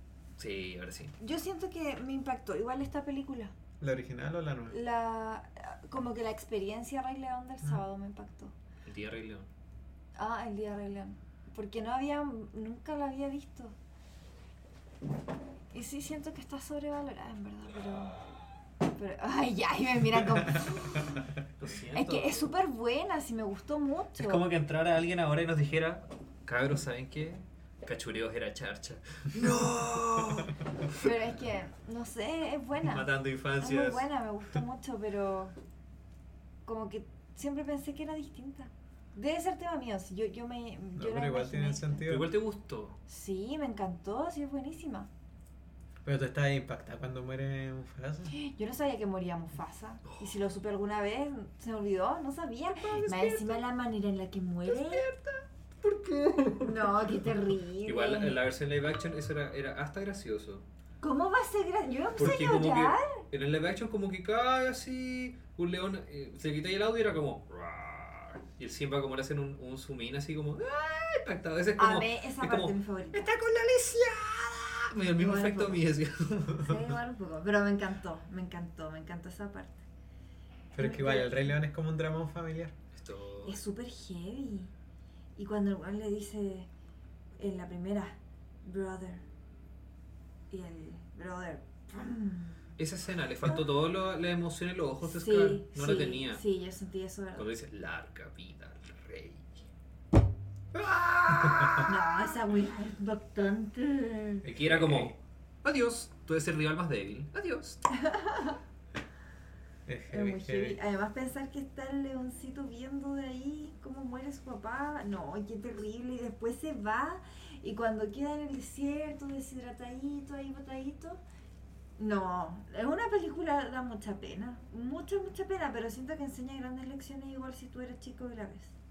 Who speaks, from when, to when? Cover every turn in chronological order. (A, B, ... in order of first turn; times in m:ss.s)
0:00.4-0:01.2 A
0:01.2-0:03.5 B
0:03.8-0:04.8 C
0:04.7-0:08.5 B
0:08.8-0:09.5 A
0:10.2-0:13.7 B
0:15.7-0:18.2 B
0:18.9-0:21.2 B
0:20.2-0:20.7 C
0:21.6-0:22.5 A
0:21.9-0:24.4 B
0:24.2-0:31.1 A
0:30.9-0:35.5 B
0:32.8-0:34.1 A
0:36.6-0:42.0 B
0:41.0-0:42.3 C
0:42.0-0:43.0 A
0:43.1-0:45.1 B
0:46.0-0:48.3 C
0:48.3-0:55.0 B
0:50.0-0:50.4 A
0:52.7-0:53.6 A
0:54.6-1:00.6 A
0:56.6-0:58.4 B
1:01.0-1:03.2 B
1:02.2-1:16.9 A
1:11.8-1:13.3 B
1:15.2-1:15.8 B
1:16.6-1:19.8 B
1:20.7-1:22.7 C
1:20.8-1:21.6 B
1:22.9-1:23.6 A
1:23.4-1:24.7 B
1:25.4-1:26.7 B
1:27.4-1:29.2 B
1:30.5-1:32.6 B
1:32.8-1:36.4 A
1:35.0-1:37.5 B
1:37.4-1:39.6 A
1:40.7-1:41.9 A
1:41.3-1:41.9 C
1:41.8-1:44.4 B
1:44.4-1:47.8 A
1:48.0-1:48.6 B
1:49.9-1:50.8 C
1:50.1-2:01.2 B
2:02.0-2:08.7 B